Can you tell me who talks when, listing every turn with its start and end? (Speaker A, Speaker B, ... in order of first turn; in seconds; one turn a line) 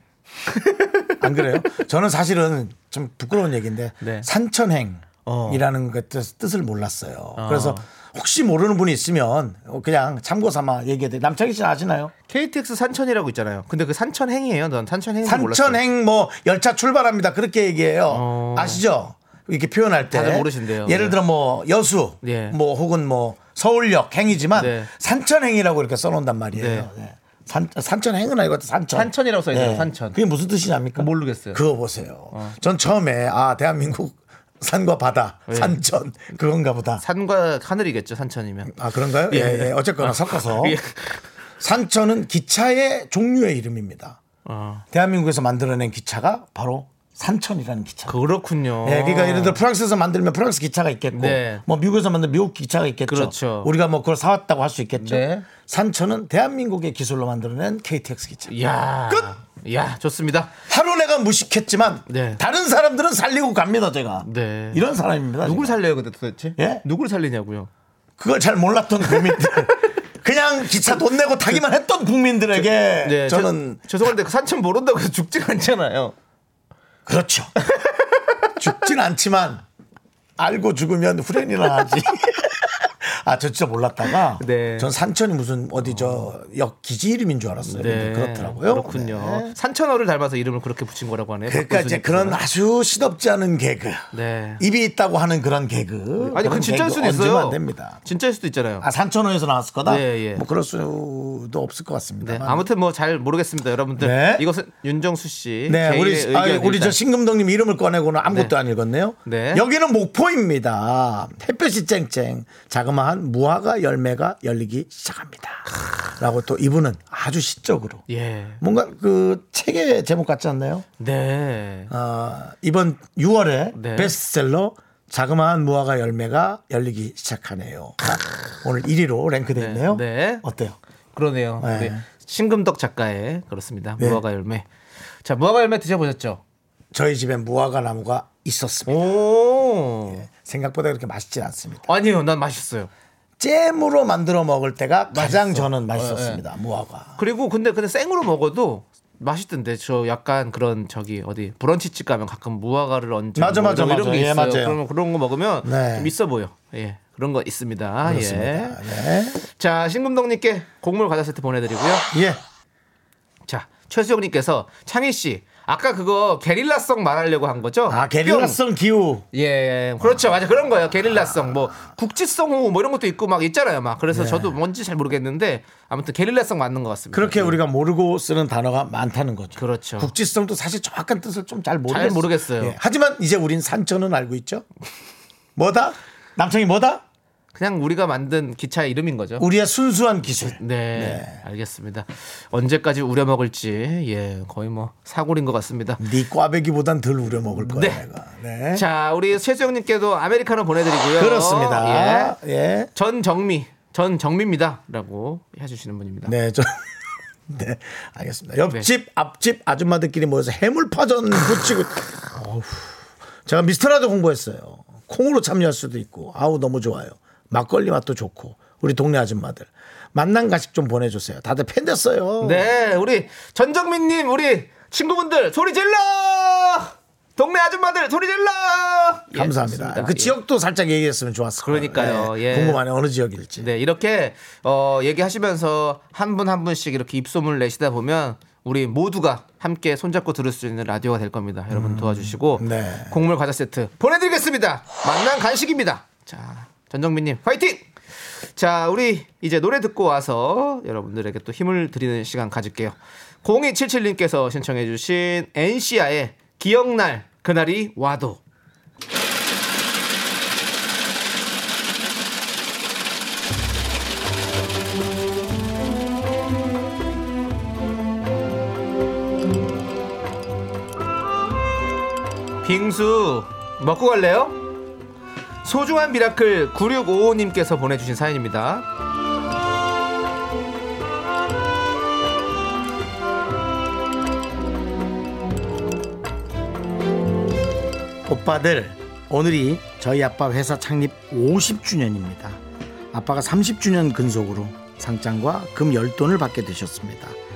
Speaker A: 0.6-1.1
Speaker B: 1.2-12.1
Speaker A: 4.0-4.3
Speaker A: 5.2-5.6
Speaker A: 7.4-7.8
Speaker A: 12.3-15.8
Speaker B: 15.2-37.0
Speaker A: 18.1-18.8
Speaker A: 20.1-21.2
Speaker A: 22.2-22.6
Speaker A: 24.5-24.9
Speaker A: 26.5-26.9
Speaker A: 28.9-30.2
Speaker A: 30.9-31.6
Speaker A: 35.5-35.8
Speaker A: 37.0-38.7
Speaker B: 38.7-40.8
Speaker A: 39.3-41.2
Speaker B: 41.6-44.2
Speaker A: 44.4-44.8
Speaker B: 44.9-48.2
Speaker A: 48.0-49.6
Speaker B: 48.8-58.5
Speaker A: 51.1-51.6
Speaker A: 53.1-53.7
Speaker A: 55.0-55.4
Speaker A: 58.5-60.5
Speaker B: 59.1-59.3
Speaker B: 60.7-65.8
Speaker A: 62.1-62.4
Speaker A: 64.2-64.8
Speaker A: 65.4-67.7
Speaker B: 66.6-66.8
Speaker B: 68.2-73.8
Speaker A: 69.0-69.7
Speaker A: 73.0-76.1
Speaker B: 77.0-77.5
Speaker A: 77.6-78.6
Speaker B: 78.6-79.6
Speaker B: 80.4-89.5
Speaker A: 84.4-84.9
Speaker A: 85.8-86.3
Speaker A: 87.6-92.4
Speaker B: 91.5-94.1
Speaker A: 94.1-94.6
Speaker B: 94.6-98.0
Speaker A: 96.3-98.8
Speaker B: 98.8-102.7
Speaker A: 99.9-100.4
Speaker A: 102.2-107.0
Speaker B: 104.0-104.5
Speaker B: 105.7-115.6
Speaker A: 109.2-109.6
Speaker B: 116.2-118.0
Speaker A: 118.1-118.6
Speaker B: 118.6-120.9
Speaker A: 121.0-121.9
Speaker B: 121.9-130.8
Speaker A: 123.8-124.1
Speaker A: 129.6-130.4
Speaker A: 131.1-134.7
Speaker B: 131.6-132.0
Speaker A: 135.2-136.4
Speaker B: 136.9-139.1
Speaker A: 138.9-140.2
Speaker B: 140.1-141.9
Speaker A: 141.9-142.9
Speaker B: 143.4-147.2
Speaker A: 145.1-146.4
Speaker A: 147.2-158.8
Speaker B: 153.3-154.8
Speaker B: 155.6-156.1
Speaker B: 158.0-159.4
Speaker A: 159.4-162.0
Speaker B: 162.1-162.4
Speaker A: 163.5-168.6
Speaker B: 167.9-169.3
Speaker A: 169.3-177.6
Speaker B: 170.0-171.8
Speaker B: 174.1-174.6
Speaker B: 177.1-184.7
Speaker A: 179.6-180.1
Speaker A: 181.9-182.8
Speaker B: 185.6-187.0
Speaker A: 187.5-189.4
Speaker B: 189.4-191.4
Speaker A: 190.6-196.0
Speaker B: 196.0-198.8
Speaker A: 197.7-198.0
Speaker A: 198.7-202.4
Speaker B: 201.1-202.9
Speaker A: 202.9-206.3
Speaker B: 206.2-206.9
Speaker B: 207.5-222.7
Speaker A: 222.4-230.3
Speaker B: 229.3-233.7
Speaker A: 231.6-232.8
Speaker A: 233.6-258.4
Speaker B: 241.7-243.2
Speaker A: 272.6-274.6
Speaker A: 275.6-278.8
Speaker B: 288.2-292.6
Speaker B: 293.1-297.4